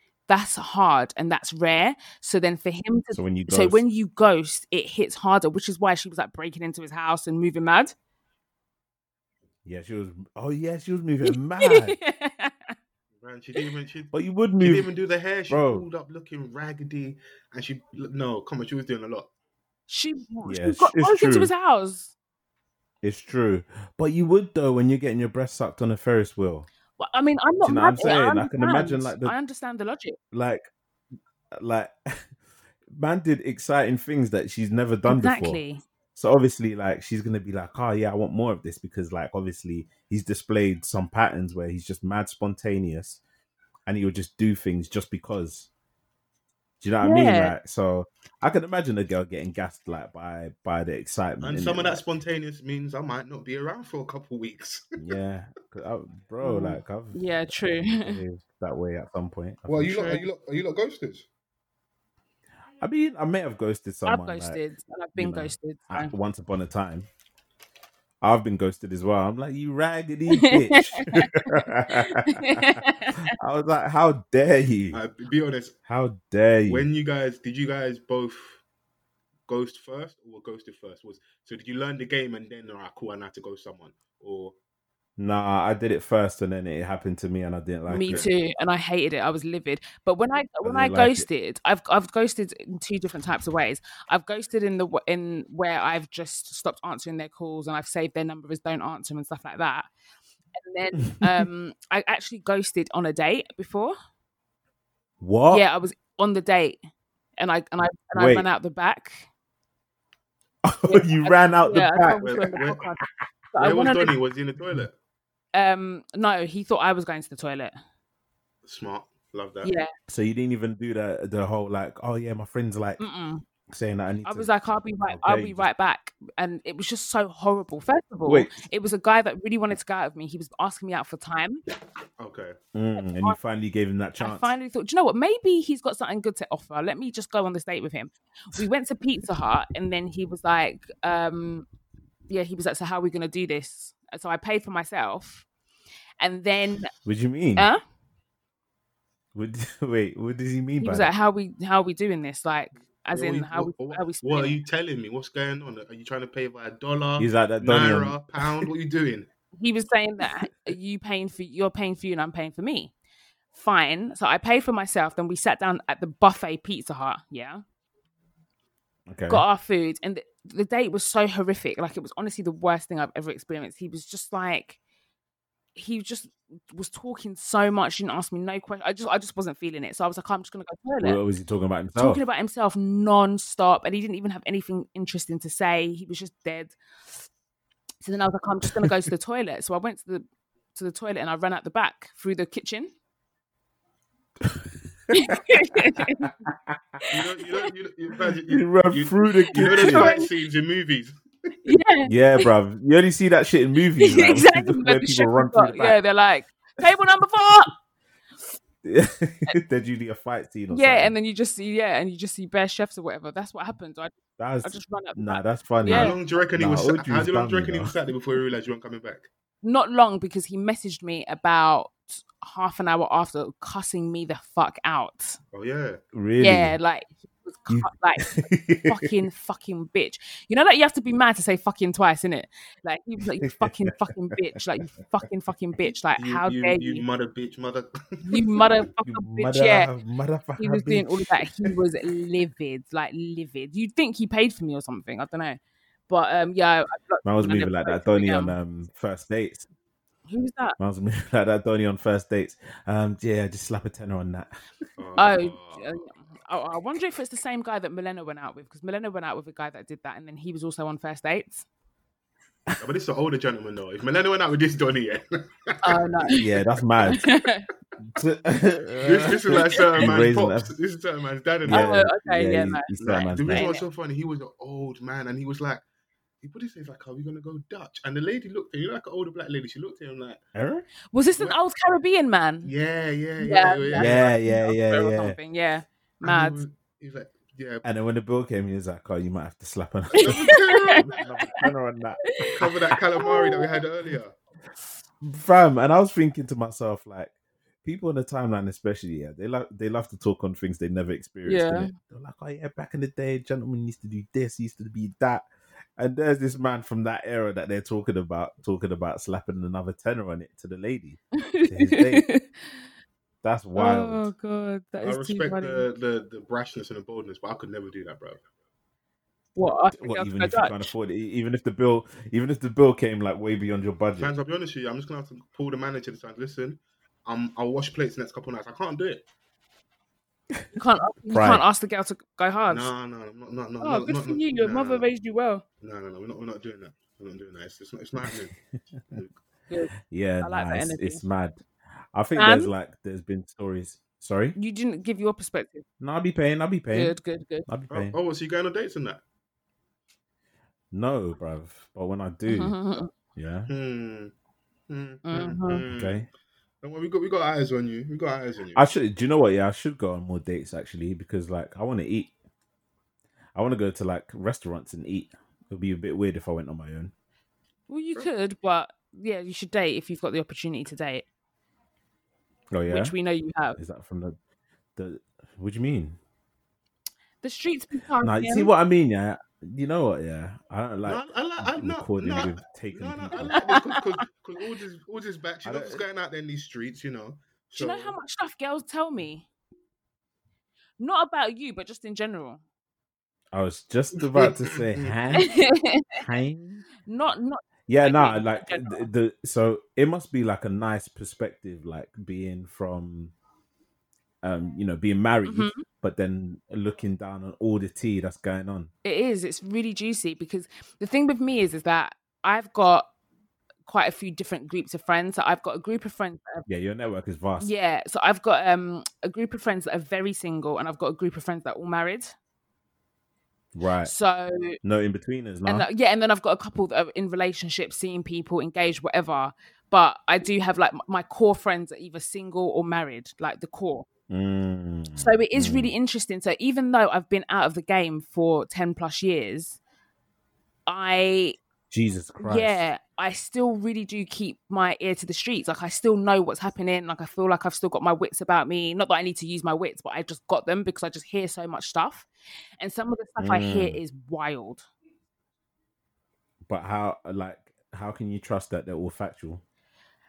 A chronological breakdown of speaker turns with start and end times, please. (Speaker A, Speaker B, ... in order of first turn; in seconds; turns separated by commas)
Speaker A: 0.3-7.9, Speaker B: 3.1-3.8, Speaker B: 9.6-11.9, Speaker A: 11.3-12.7, Speaker C: 13.2-19.3, Speaker B: 14.1-14.9, Speaker B: 15.5-15.8, Speaker A: 19.9-22.1, Speaker B: 20.4-21.5, Speaker B: 23.0-26.7, Speaker A: 27.0-30.2, Speaker B: 27.6-29.3, Speaker B: 30.3-30.7, Speaker B: 31.5-32.2, Speaker B: 32.9-35.6, Speaker A: 35.0-35.8, Speaker B: 36.1-43.2, Speaker B: 43.9-45.7, Speaker B: 46.8-52.0, Speaker A: 47.0-47.5, Speaker C: 51.4-55.0, Speaker B: 55.0-57.2, Speaker A: 56.4-58.2, Speaker B: 57.9-60.2, Speaker C: 59.7-61.3, Speaker A: 59.9-60.2, Speaker B: 62.8-64.6, Speaker A: 64.0-66.1, Speaker B: 65.2-67.1, Speaker B: 68.2-75.0, Speaker A: 70.3-73.3, Speaker C: 74.9-75.8, Speaker B: 75.9-76.9, Speaker C: 76.7-78.6, Speaker C: 79.5-84.5, Speaker B: 85.2-88.3, Speaker A: 87.9-99.9, Speaker C: 88.0-88.3, Speaker B: 90.6-91.3, Speaker A: 100.6-103.9, Speaker B: 101.1-101.5, Speaker B: 105.2-105.6, Speaker A: 105.5-106.8, Speaker A: 107.4-109.3, Speaker B: 108.1-108.5, Speaker B: 110.6-112.6, Speaker A: 110.9-113.0, Speaker C: 112.2-112.9, Speaker A: 113.5-114.2, Speaker C: 113.6-115.0, Speaker A: 115.5-117.7, Speaker C: 118.6-119.7, Speaker A: 119.6-119.9, Speaker B: 120.1-123.0, Speaker A: 123.0-123.4, Speaker B: 123.7-124.5, Speaker A: 124.2-131.6, Speaker B: 125.0-125.7, Speaker B: 128.2-128.5, Speaker C: 132.2-132.6, Speaker B: 132.7-134.5, Speaker A: 133.0-133.4, Speaker A: 134.2-141.7, Speaker A: 142.3-145.4, Speaker A: 146.2-146.9, Speaker B: 147.0-147.7, Speaker B: 149.3-151.1, Speaker A: 150.8-154.6, Speaker C: 153.1-159.3, Speaker B: 157.2-158.7, Speaker A: 159.6-162.9, Speaker A: 163.5-167.6, Speaker B: 169.1-169.4, Speaker A: 169.3-174.8, Speaker A: 175.7-181.2, Speaker B: 181.0-182.2, Speaker A: 182.0-187.2, Speaker A: 188.0-192.9, Speaker A: 195.1-196.3, Speaker B: 196.0-197.0, Speaker C: 197.1-201.2, Speaker B: 198.5-200.2, Speaker A: 199.6-200.3, Speaker A: 201.6-202.5, Speaker B: 202.1-206.0, Speaker A: 204.0-207.7, Speaker B: 208.8-211.1, Speaker A: 210.7-216.2, Speaker B: 214.4-217.9, Speaker C: 215.9-219.3, Speaker A: 219.6-225.4, Speaker C: 225.5-226.0, Speaker B: 226.1-226.8, Speaker A: 226.4-237.0, Speaker B: 227.7-229.1, Speaker C: 236.2-238.7, Speaker A: 238.2-239.9, Speaker B: 239.0-241.7, Speaker A: 240.6-248.6, Speaker B: 247.2-249.7, Speaker A: 250.3-250.8, Speaker B: 250.8-254.5, Speaker C: 255.0-256.0, Speaker A: 255.2-261.6, Speaker C: 262.8-266.4, Speaker A: 265.8-266.4, Speaker B: 266.3-267.2, Speaker A: 267.1-267.6, Speaker B: 268.1-270.7, Speaker C: 269.0-271.9, Speaker B: 271.6-273.7, Speaker A: 271.7-273.8, Speaker C: 273.0-275.8, Speaker C: 276.4-280.4, Speaker B: 280.5-280.9, Speaker A: 281.1-282.7, Speaker C: 282.6-284.4, Speaker A: 283.4-286.6, Speaker B: 284.0-285.4, Speaker C: 286.2-287.8, Speaker B: 287.8-292.9, Speaker C: 290.1-291.2, Speaker A: 290.2-291.7, Speaker A: 292.3-292.6, Speaker C: 292.6-294.3, Speaker A: 293.1-293.8, Speaker B: 295.2-297.3, Speaker B: 297.8-305.4, Speaker A: 301.4-301.9, Speaker B: 306.0-312.3, Speaker A: 311.4-312.4, Speaker B: 313.4-314.3, Speaker A: 313.8-315.9, Speaker C: 315.0-318.4, Speaker A: 319.6-320.9, Speaker B: 319.9-324.3, Speaker C: 324.2-329.2, Speaker A: 330.8-332.9, Speaker B: 331.3-331.6, Speaker C: 332.7-335.1, Speaker A: 333.8-335.6, Speaker C: 335.8-338.5, Speaker A: 339.7-341.2, Speaker B: 340.1-341.6, Speaker B: 342.1-344.6, Speaker A: 342.4-342.7, Speaker A: 344.6-345.8, Speaker B: 346.0-347.1, Speaker A: 346.9-347.7, Speaker B: 347.7-348.1, Speaker C: 347.9-349.2, Speaker B: 350.9-352.8, Speaker A: 352.5-353.1, Speaker B: 353.4-353.7, Speaker C: 353.7-354.3, Speaker C: 354.9-356.3, Speaker A: 355.2-355.8, Speaker B: 355.9-356.3, Speaker C: 356.8-358.8, Speaker B: 358.7-362.3, Speaker B: 363.5-367.1, Speaker A: 367.9-371.2, Speaker B: 372.7-373.1, Speaker A: 372.9-373.8, Speaker B: 373.8-374.4, Speaker B: 374.9-376.2, Speaker A: 377.4-378.7, Speaker B: 378.2-383.6, Speaker C: 381.1-388.2, Speaker A: 383.4-384.0, Speaker B: 385.6-386.0, Speaker A: 387.8-389.5, Speaker A: 391.0-392.6, Speaker B: 393.5-395.5, Speaker C: 394.2-395.1, Speaker A: 395.4-396.2, Speaker B: 396.1-396.9, Speaker A: 397.0-399.1, Speaker B: 397.9-403.3, Speaker B: 404.4-408.9, Speaker A: 405.4-405.8, Speaker A: 409.0-413.1, Speaker A: 413.9-416.6, Speaker B: 416.7-417.7, Speaker A: 417.6-422.3, Speaker B: 423.7-424.1, Speaker A: 424.0-424.8, Speaker B: 424.8-425.9, Speaker A: 425.6-434.1, Speaker B: 434.3-435.9, Speaker A: 435.1-439.8, Speaker A: 440.9-441.6, Speaker B: 441.9-442.8, Speaker A: 442.4-452.3, Speaker A: 452.8-454.9, Speaker B: 453.4-454.0, Speaker B: 456.6-459.6